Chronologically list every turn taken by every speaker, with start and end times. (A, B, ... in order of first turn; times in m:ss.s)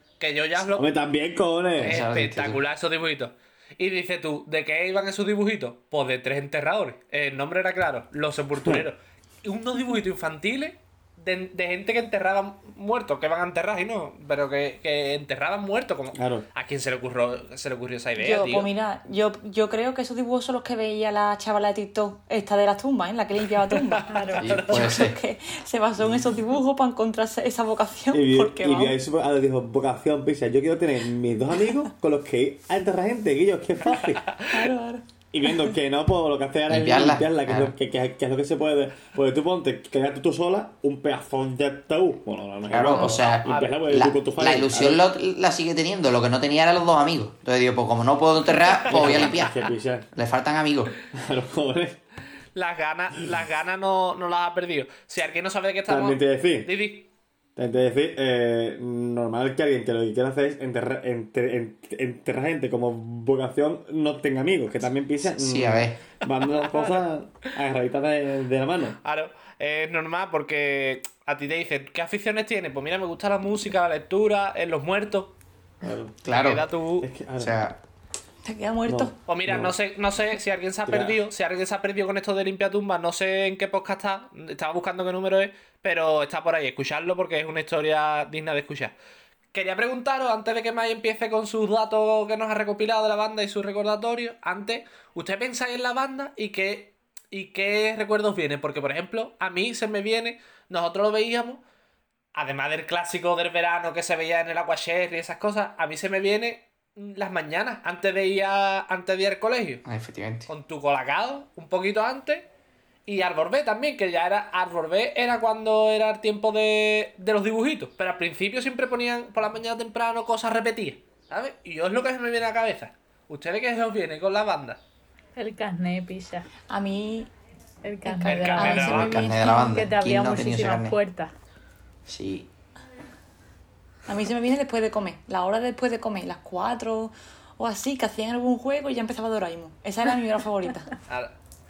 0:00.2-0:00.8 A
0:00.7-0:02.0 B
0:01.8-0:02.6 C
0:01.8-0:18.7 A
0:16.1-0:16.4 B
0:18.2-0:24.1 D
0:23.7-0:25.1 A
0:24.1-0:24.8 E
0:24.4-0:25.2 C
0:24.7-0:29.0 D
0:28.1-0:34.4 B
0:34.3-0:34.7 A
0:34.5-0:35.7 D
0:35.3-0:45.1 B
0:36.7-0:37.7 C
0:42.7-0:51.0 C
0:42.9-0:43.8 A
0:48.6-0:49.5 A
0:48.9-0:50.1 B
0:51.1-0:52.0 B
0:52.5-0:57.1 A
0:55.9-0:56.7 B
0:57.6-1:09.0 B
1:05.2-1:06.1 C
1:06.6-1:07.0 A
1:09.0-1:15.3 A
1:15.8-1:16.2 B
1:16.2-1:16.6 C
1:16.3-1:17.1 A
1:17.0-1:17.6 B
1:17.4-1:17.8 C
1:18.4-1:19.1 D
1:18.8-1:19.7 B
1:19.2-1:28.9 A
1:20.8-1:21.2 B
1:29.5-1:41.6 A
1:42.3-1:49.8 A
1:49.8-1:50.5 C
1:50.5-1:52.5 A
1:53.1-2:04.8 A
2:05.3-2:06.5 E
2:06.7-2:07.3 D
2:07.8-2:11.3 E
2:08.0-2:09.8 D
2:08.2-2:09.2 A
2:08.7-2:11.0 C
2:12.1-2:12.5 C
2:14.1-2:20.9 D
2:21.1-2:21.3 A